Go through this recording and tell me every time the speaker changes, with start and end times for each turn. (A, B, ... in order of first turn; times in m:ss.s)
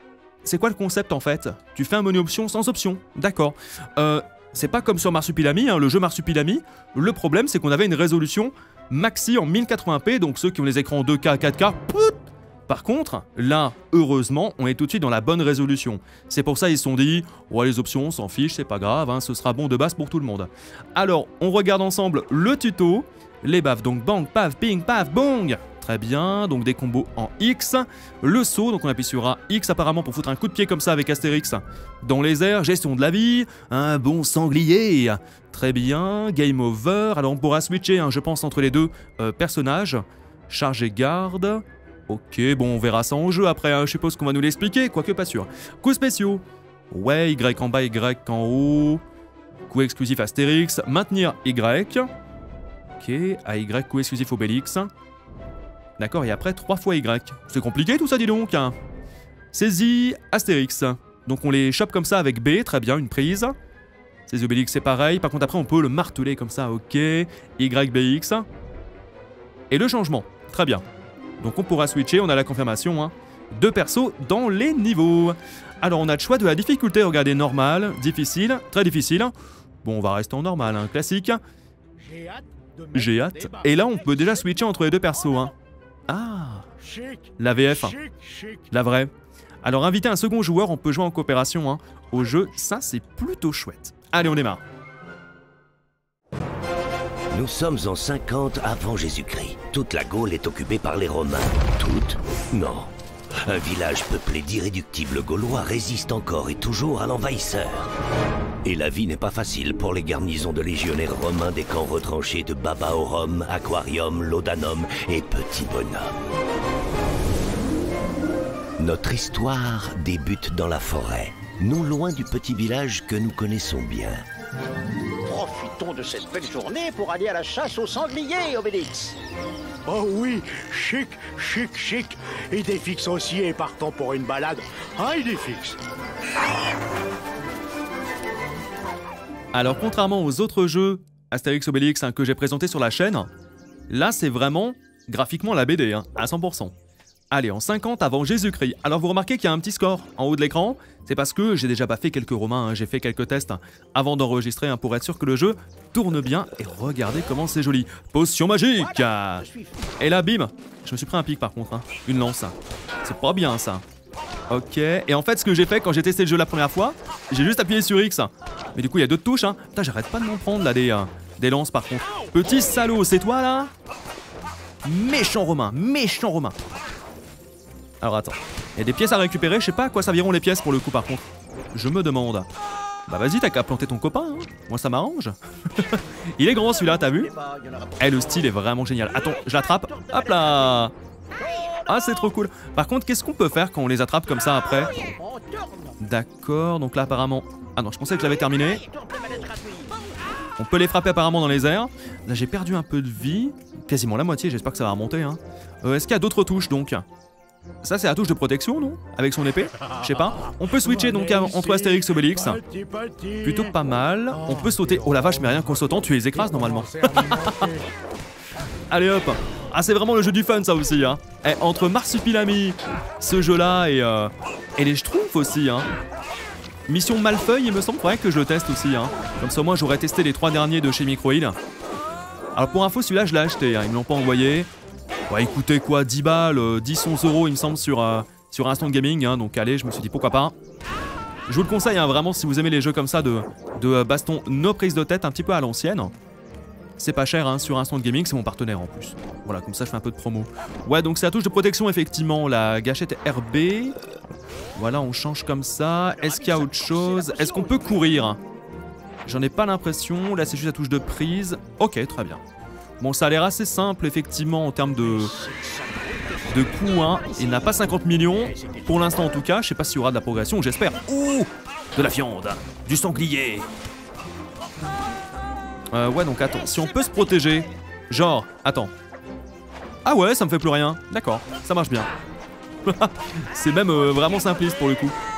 0:00.4-0:49.0 A
0:49.7-0:52.1 A
0:53.0-0:54.9 A
0:56.0-0:58.7 A
0:59.5-1:03.5 A
1:04.3-1:08.4 A
1:09.7-1:10.8 A
1:11.4-1:21.4 A
1:22.0-1:24.0 B
1:22.9-1:25.5 A
1:23.8-1:25.5 C
1:26.1-1:26.7 A
1:26.8-1:28.7 B
1:27.4-1:28.0 A
1:28.7-1:29.1 A
1:29.6-1:34.6 A
1:37.3-1:47.9 D
1:48.6-1:56.2 D
1:58.8-2:04.2 D
2:05.3-2:09.2 C
2:09.8-2:15.8 B
2:19.5-2:23.3 A
2:23.9-2:26.7 A
2:27.3-2:39.5 A
2:38.8-2:39.9 C
2:40.0-2:43.8 A
2:44.5-2:53.7 A
2:54.8-2:56.6 A
2:58.0-3:02.5 A
3:03.1-3:07.3 A
3:06.7-3:08.5 C
3:08.0-3:10.9 A
3:09.1-3:12.1 C
3:11.9-3:14.9 A
3:14.5-3:16.0 C
3:16.0-3:18.8 A
3:18.2-3:20.1 C
3:20.6-3:27.0 A
3:27.8-3:32.6 A
3:29.8-3:37.9 B
3:33.4-3:37.7 A
3:38.9-3:45.9 A
3:46.9-3:51.6 A
3:52.5-3:54.7 A
3:55.3-4:00.5 A
4:01.5-4:06.1 A
4:07.0-4:14.0 A
4:14.7-4:18.4 A
4:16.1-4:18.1 C
4:19.2-4:22.4 A
4:23.0-4:25.3 A
4:25.0-4:27.8 C
4:26.5-4:33.7 A
4:28.5-4:29.3 B
4:35.9-4:38.9 A
4:36.4-4:37.6 C
4:40.0-4:42.1 A
4:42.8-4:45.2 A